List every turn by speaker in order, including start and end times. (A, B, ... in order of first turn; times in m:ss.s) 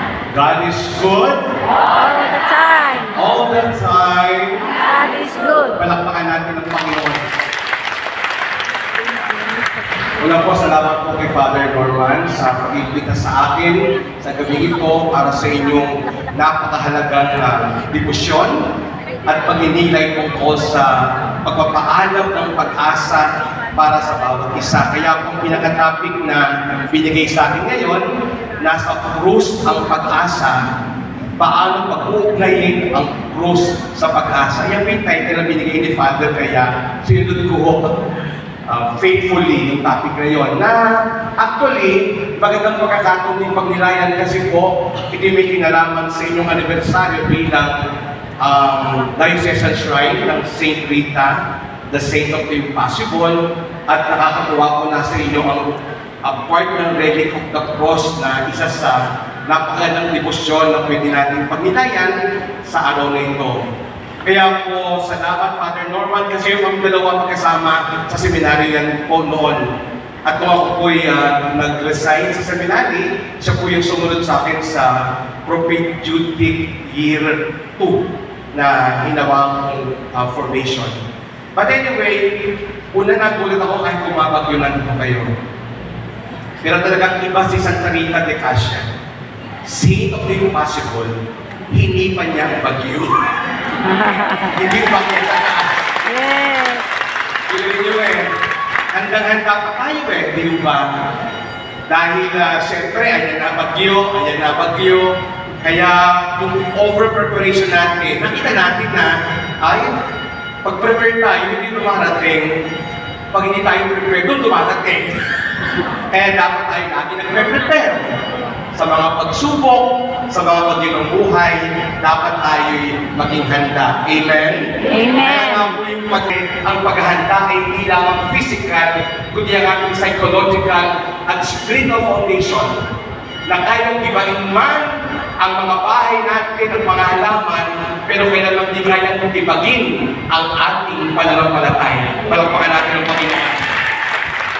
0:00.3-0:01.5 A
0:01.9-0:03.2 B
0:03.1-0:04.7 A
0:04.8-0:05.8 B
0:05.8-0:07.2 A
0:10.2-0:18.7 A
0:19.3-0:30.7 A
0:31.4-0:38.0 A
0:38.7-0:47.8 A
0:48.4-1:03.7 A
1:04.2-1:21.0 A
1:21.6-1:25.3 A
1:26.6-1:28.9 A
1:29.6-1:31.1 A
1:31.7-1:33.2 A
1:33.9-1:34.5 B
1:34.5-1:35.8 A
1:36.0-1:36.9 B
1:37.5-1:38.3 A
1:38.9-1:40.9 A
1:41.9-1:50.0 A
1:50.6-1:52.5 A
1:53.3-1:55.2 A
1:56.1-1:58.2 A
1:58.7-2:12.8 A
2:04.8-2:05.7 B
2:13.5-2:23.7 A